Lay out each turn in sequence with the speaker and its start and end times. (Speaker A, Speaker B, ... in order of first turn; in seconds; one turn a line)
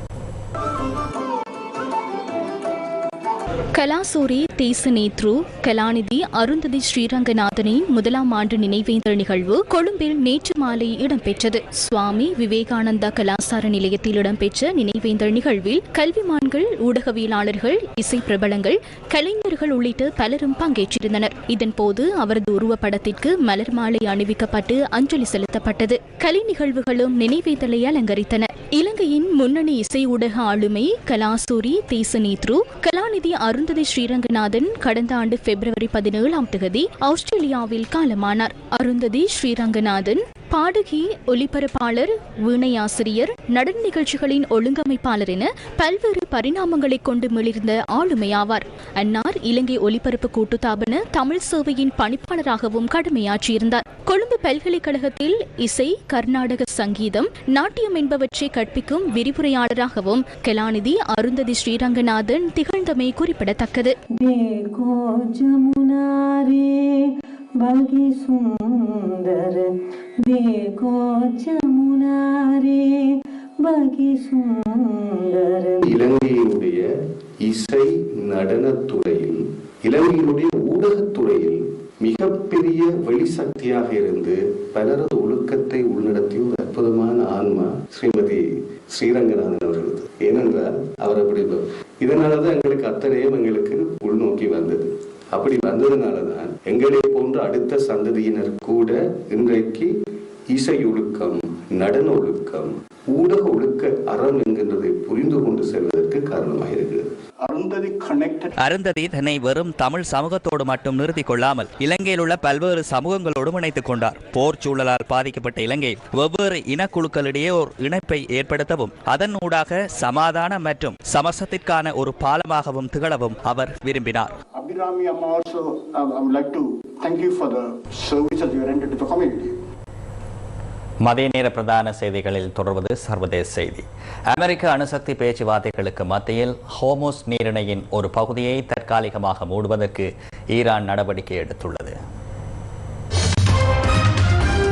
Speaker A: 3.7-64.0
Speaker B: 64.2-66.7
Speaker B: 67.6-69.6
Speaker B: 70.2-72.8
Speaker B: 73.6-75.8
Speaker C: 75.8-76.9
Speaker C: 77.4-99.9
Speaker C: 100.5-107.1
Speaker D: 107.4-108.5
Speaker E: 108.6-124.3
Speaker D: 124.5-129.5
Speaker E: 131.1-141.9